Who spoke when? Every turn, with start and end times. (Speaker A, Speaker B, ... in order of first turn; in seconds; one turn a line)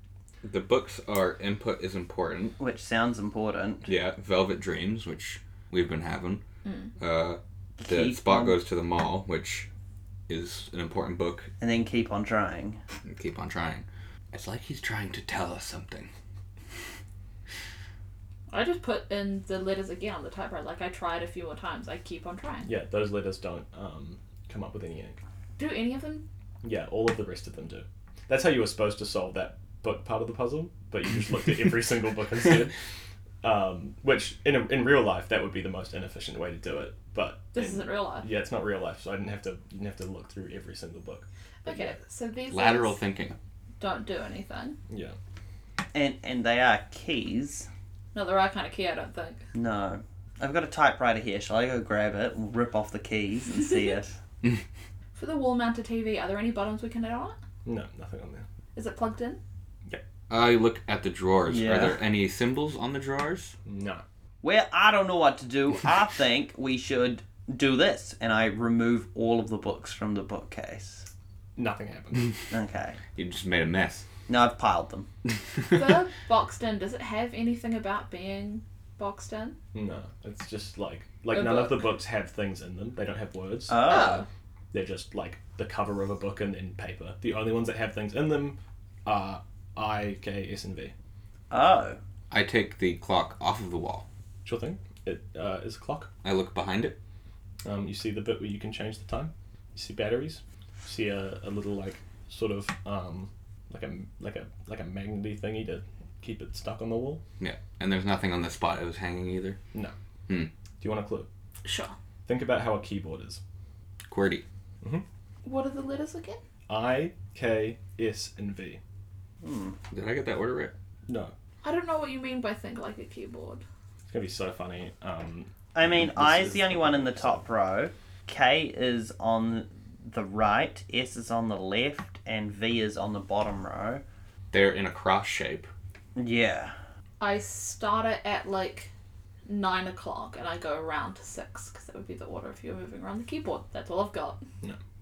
Speaker A: 0.4-2.5
Speaker B: 2.6-3.9
Speaker A: 3.9-6.4
Speaker C: 6.6-6.9
Speaker A: 7.0-9.7
Speaker B: 7.8-8.6
Speaker A: 10.3-11.5
Speaker B: 11.6-12.8
Speaker A: 13.0-16.1
Speaker C: 18.5-22.7
Speaker D: 22.6-25.2
Speaker C: 25.6-26.2
Speaker D: 26.6-32.7
Speaker D: 33.4-41.9
Speaker C: 37.5-38.3
Speaker C: 41.6-43.0
Speaker A: 42.5-43.4
Speaker C: 43.8-44.8
Speaker D: 44.9-45.1
Speaker B: 45.9-47.7
Speaker C: 48.1-49.4
Speaker B: 49.5-54.1
Speaker C: 55.1-57.4
Speaker D: 57.6-58.4
Speaker C: 58.7-59.4
Speaker A: 60.3-63.5
Speaker B: 61.5-62.0
Speaker D: 63.6-64.0
Speaker B: 64.4-71.0
Speaker D: 71.5-72.5
Speaker B: 72.5-73.0
Speaker A: 73.1-74.0
Speaker B: 74.3-75.1
Speaker C: 75.7-79.6
Speaker D: 79.7-83.9
Speaker C: 81.3-81.8
Speaker B: 83.7-84.2
Speaker C: 83.8-84.3
Speaker D: 84.7-90.9
Speaker B: 91.5-92.0
Speaker A: 92.3-94.0
Speaker D: 94.4-96.1
Speaker A: 96.2-97.0
Speaker D: 97.6-107.2
Speaker A: 107.4-109.6
Speaker D: 110.8-111.3
Speaker C: 111.6-111.9
Speaker D: 112.2-113.4
Speaker A: 114.0-114.4
Speaker C: 115.4-116.4
Speaker D: 116.7-118.8
Speaker B: 119.4-119.8
Speaker A: 119.9-120.7
Speaker D: 121.1-121.3
Speaker C: 121.6-123.6
Speaker D: 124.1-127.4
Speaker B: 125.7-134.0
Speaker A: 134.5-135.7
Speaker B: 136.2-136.7
Speaker C: 137.2-138.9
Speaker C: 139.4-144.4